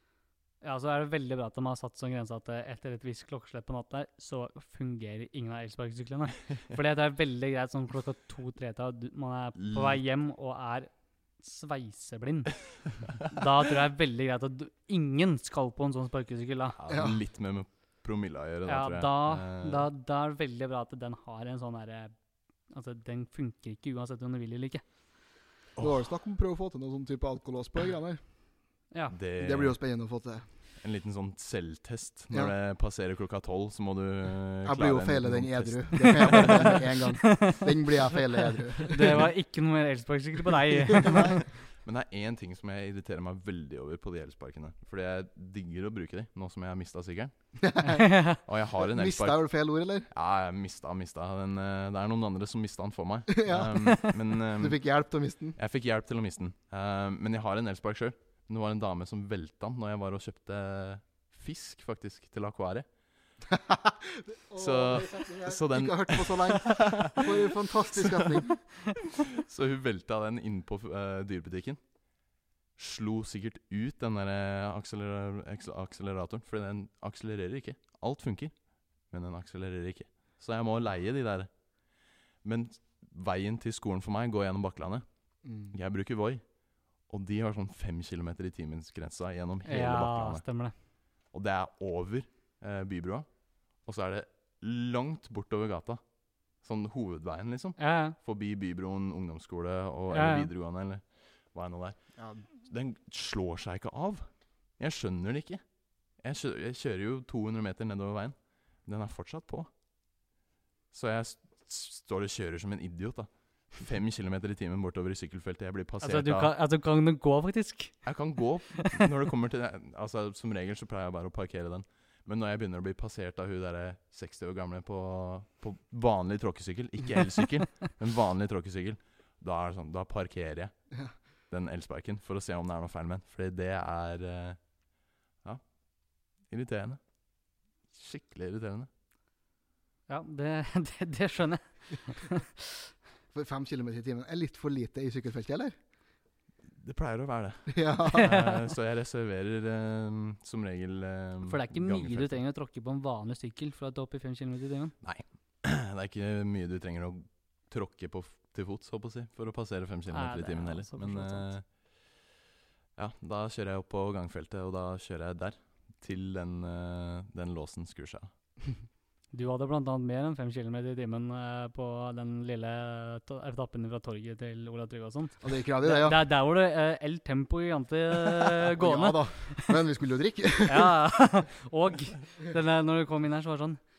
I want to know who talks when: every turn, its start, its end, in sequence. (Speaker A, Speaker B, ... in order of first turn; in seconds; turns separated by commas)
Speaker A: 0.6-12.6, Speaker B: 9.6-10.0, Speaker A: 13.2-16.8, Speaker B: 16.8-19.9, Speaker C: 16.9-17.2, Speaker A: 18.7-22.1, Speaker A: 22.7-24.8, Speaker C: 25.8-28.2, Speaker B: 29.1-29.8, Speaker C: 29.4-30.4, Speaker B: 30.8-36.9, Speaker C: 34.6-39.2, Speaker A: 36.3-37.7, Speaker A: 38.9-41.4, Speaker C: 40.9-41.4, Speaker B: 41.8-47.3, Speaker C: 47.6-48.1, Speaker A: 47.8-48.4, Speaker B: 48.5-49.4, Speaker C: 48.8-50.1, Speaker B: 50.1-54.8, Speaker C: 53.4-55.6, Speaker B: 55.6-62.9, Speaker C: 63.5-68.6, Speaker B: 64.6-67.3, Speaker B: 67.9-68.4, Speaker B: 69.3-71.8, Speaker B: 72.8-78.5, Speaker B: 79.1-81.5, Speaker B: 82.4-85.0, Speaker C: 85.4-85.7, Speaker B: 85.7-86.4, Speaker B: 87.1-90.4, Speaker A: 89.7-90.7, Speaker B: 91.3-93.3, Speaker B: 93.8-96.0, Speaker B: 96.6-102.0, Speaker A: 97.8-98.2, Speaker A: 100.1-100.5, Speaker C: 102.2-102.4, Speaker B: 102.7-104.3, Speaker B: 104.8-105.6, Speaker B: 106.2-109.7, Speaker B: 110.9-116.5, Speaker A: 116.0-118.0, Speaker B: 118.0-130.7, Speaker A: 118.8-119.0, Speaker B: 131.5-134.6, Speaker B: 136.4-137.0, Speaker B: 137.9-138.9, Speaker A: 140.1-142.9, Speaker C: 143.3-145.8, Speaker B: 146.7-152.4, Speaker C: 147.7-148.3, Speaker A: 148.1-148.6, Speaker A: 151.5-154.9, Speaker B: 155.0-161.7, Speaker A: 160.1-161.5, Speaker B: 163.0-168.3, Speaker A: 169.3-179.8, Speaker C: 175.4-176.2, Speaker C: 178.6-181.0, Speaker A: 180.7-183.8